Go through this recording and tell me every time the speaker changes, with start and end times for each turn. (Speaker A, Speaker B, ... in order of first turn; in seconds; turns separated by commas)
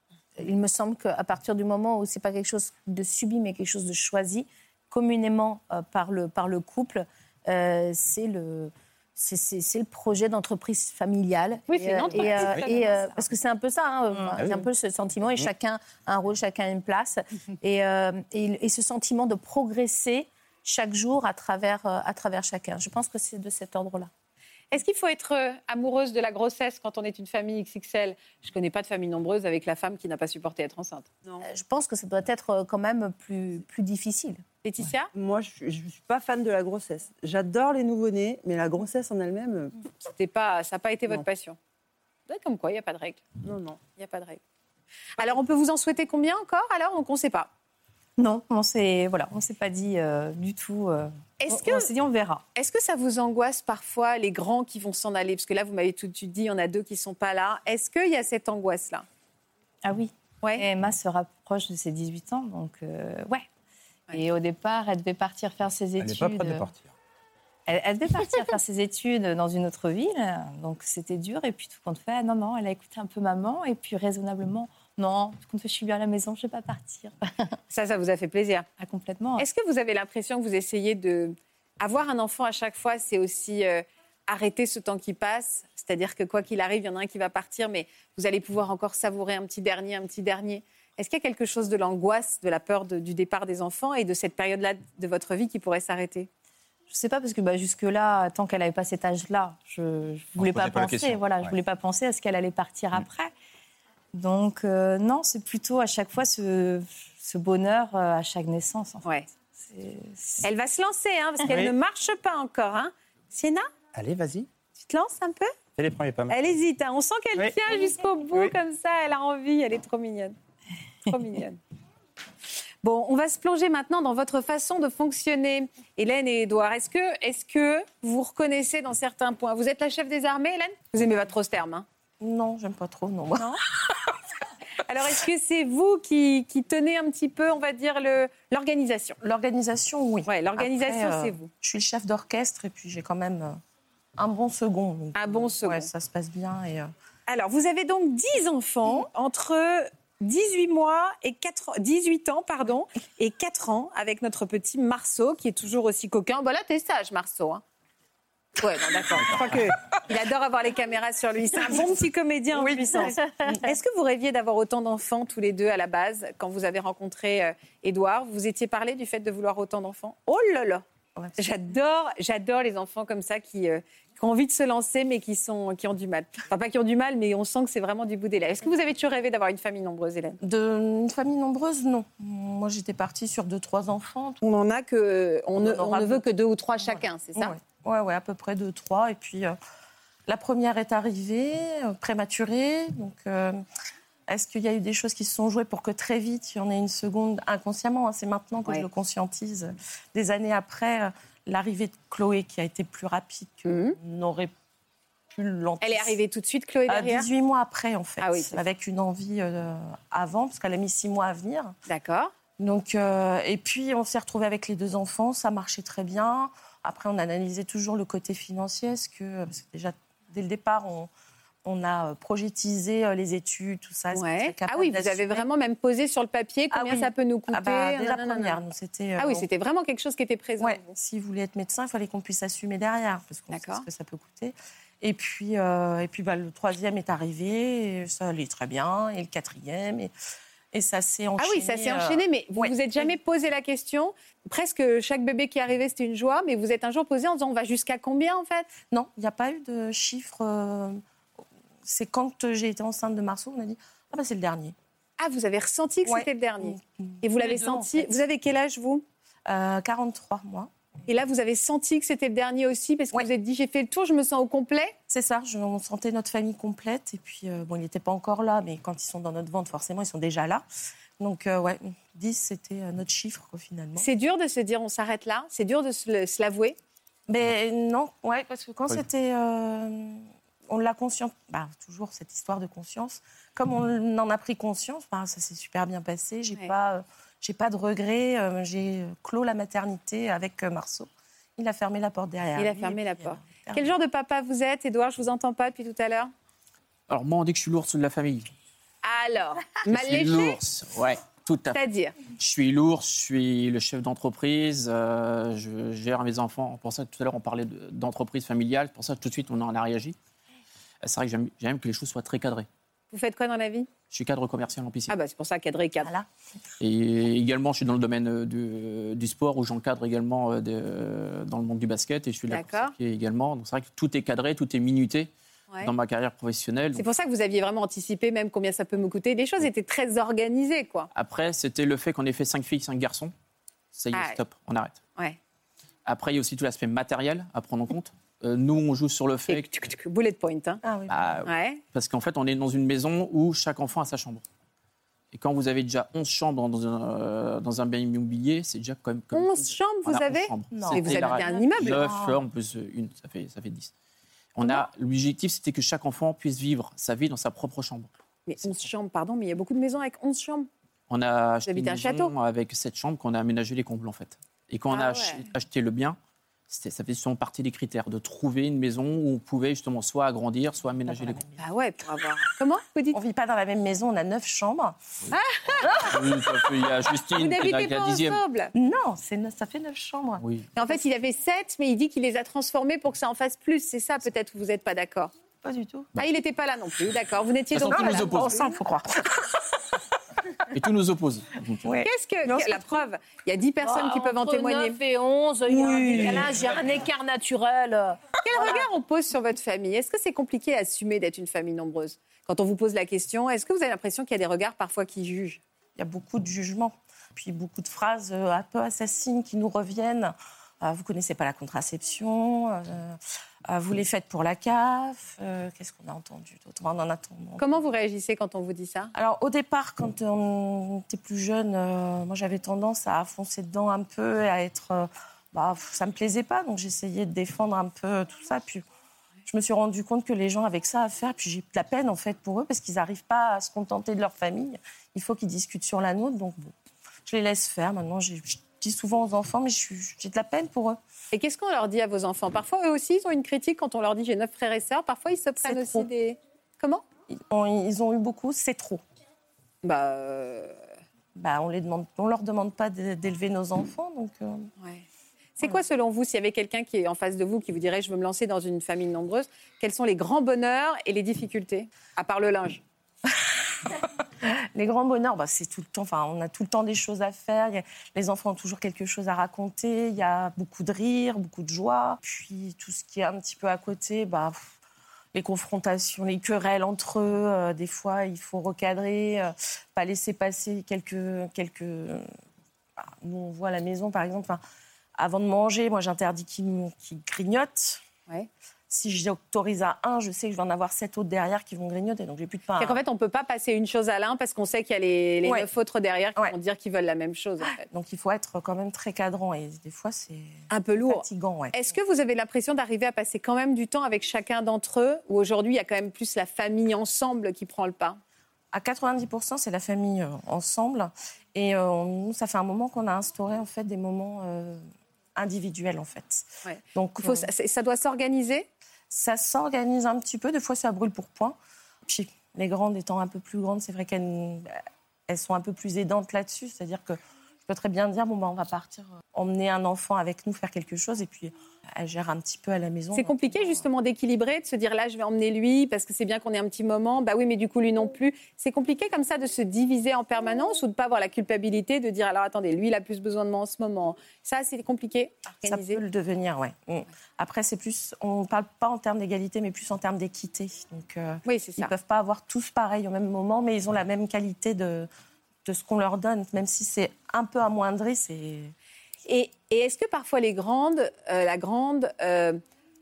Speaker A: 0.4-24.1, Speaker B: 11.7-13.2, Speaker B: 24.7-31.1, Speaker A: 31.4-34.4, Speaker B: 34.6-35.1, Speaker C: 35.1-39.7, Speaker B: 40.0-41.6, Speaker B: 42.3-44.4, Speaker C: 43.4-43.8, Speaker B: 45.2-47.5, Speaker D: 48.2-52.4, Speaker B: 51.4-51.9, Speaker B: 52.5-59.0, Speaker D: 59.8-63.5, Speaker D: 64.1-66.7, Speaker E: 66.0-66.9, Speaker D: 67.7-77.5, Speaker B: 77.7-78.7, Speaker D: 78.8-79.5, Speaker B: 79.4-96.3, Speaker D: 96.9-103.3, Speaker E: 100.4-101.5, Speaker D: 104.1-110.5, Speaker B: 110.4-113.7, Speaker E: 111.5-111.7, Speaker E: 113.9-114.5, Speaker B: 114.8-115.5, Speaker E: 115.8-116.3, Speaker B: 116.3-120.3, Speaker B: 121.0-121.6, Speaker B: 122.8-131.8, Speaker F: 132.2-133.6, Speaker B: 134.8-139.2, Speaker F: 139.2-143.6, Speaker B: 140.2-141.5, Speaker F: 144.2-146.9, Speaker B: 145.1-145.9, Speaker B: 147.3-157.6, Speaker B: 158.6-170.8, Speaker B: 171.4-180.4, Speaker F: 180.4-184.4, Speaker B: 184.4-187.5, Speaker F: 185.6-186.2, Speaker F: 186.8-189.6, Speaker F: 190.3-193.6, Speaker F: 194.3-204.5, Speaker B: 203.7-203.9, Speaker F: 205.3-206.2, Speaker B: 205.8-207.3, Speaker F: 206.9-211.7, Speaker B: 208.2-208.6, Speaker B: 211.9-212.3, Speaker F: 212.6-221.1, Speaker F: 221.6-225.4, Speaker B: 224.1-228.6, Speaker F: 226.7-229.5, Speaker B: 229.2-230.9, Speaker F: 230.6-240.1, Speaker B: 233.5-233.8, Speaker F: 240.7-243.1, Speaker B: 241.4-248.7, Speaker F: 248.9-251.0, Speaker F: 251.8-254.7, Speaker B: 255.2-259.0, Speaker F: 256.1-258.2, Speaker F: 259.5-260.7, Speaker B: 261.1-264.9, Speaker F: 265.1-270.6, Speaker F: 271.2-274.1, Speaker B: 274.0-276.8, Speaker F: 277.3-293.9, Speaker B: 292.6-296.3, Speaker G: 297.1-298.5, Speaker B: 299.0-300.6, Speaker G: 299.9-301.8, Speaker B: 301.7-302.1, Speaker G: 302.4-310.1, Speaker G: 311.0-312.7, Speaker B: 313.1-313.9, Speaker G: 314.1-315.1, Speaker B: 315.1-316.1, Speaker G: 316.8-325.3, Speaker B: 322.5-322.9, Speaker G: 325.8-327.1, Speaker B: 326.9-331.1, Speaker G: 331.1-333.3, Speaker G: 333.9-335.0, Speaker B: 334.1-334.4, Speaker G: 336.1-339.6, Speaker B: 339.5-340.8, Speaker F: 340.8-341.4, Speaker G: 341.1-344.4, Speaker B: 341.4-341.8, Speaker G: 345.3-353.9, Speaker B: 349.3-352.1, Speaker F: 350.7-352.4, Speaker G: 354.5-358.1, Speaker B: 358.5-360.7, Speaker G: 358.6-358.9, Speaker G: 361.1-366.2, Speaker B: 361.6-362.3, Speaker B: 364.9-365.4, Speaker G: 366.7-371.4, Speaker F: 371.0-371.6, Speaker B: 371.6-373.2, Speaker F: 373.1-375.0, Speaker B: 375.3-376.2, Speaker F: 375.8-376.2, Speaker G: 376.0-378.4, Speaker B: 377.2-378.7, Speaker F: 378.7-381.0, Speaker G: 380.4-380.7, Speaker B: 380.8-385.3, Speaker F: 385.6-386.1, Speaker B: 386.2-388.6, Speaker G: 387.7-388.7, Speaker F: 387.8-389.6, Speaker G: 390.7-391.9, Speaker F: 391.8-392.8, Speaker B: 392.0-395.0, Speaker A: 393.8-398.8, Speaker F: 395.7-396.5, Speaker B: 398.4-405.6, Speaker F: 406.0-417.6, Speaker B: 417.6-419.1, Speaker F: 419.1-428.8, Speaker F: 429.4-436.7, Speaker F: 437.2-441.0, Speaker B: 441.3-447.0, Speaker F: 445.6-446.1, Speaker F: 447.3-449.0, Speaker B: 449.8-450.8, Speaker F: 451.3-454.7, Speaker B: 454.8-455.0, Speaker B: 455.6-462.8, Speaker F: 463.9-474.7, Speaker F: 475.3-482.3, Speaker F: 483.0-484.6, Speaker F: 485.1-488.0, Speaker F: 488.9-493.0, Speaker B: 492.8-497.8, Speaker F: 497.7-501.8, Speaker B: 500.7-508.2, Speaker F: 508.7-517.5, Speaker B: 516.6-518.7, Speaker F: 519.1-524.8, Speaker F: 525.3-533.9, Speaker B: 533.1-546.0, Speaker F: 545.6-555.1, Speaker B: 551.5-551.9, Speaker F: 555.6-558.7, Speaker B: 559.2-562.6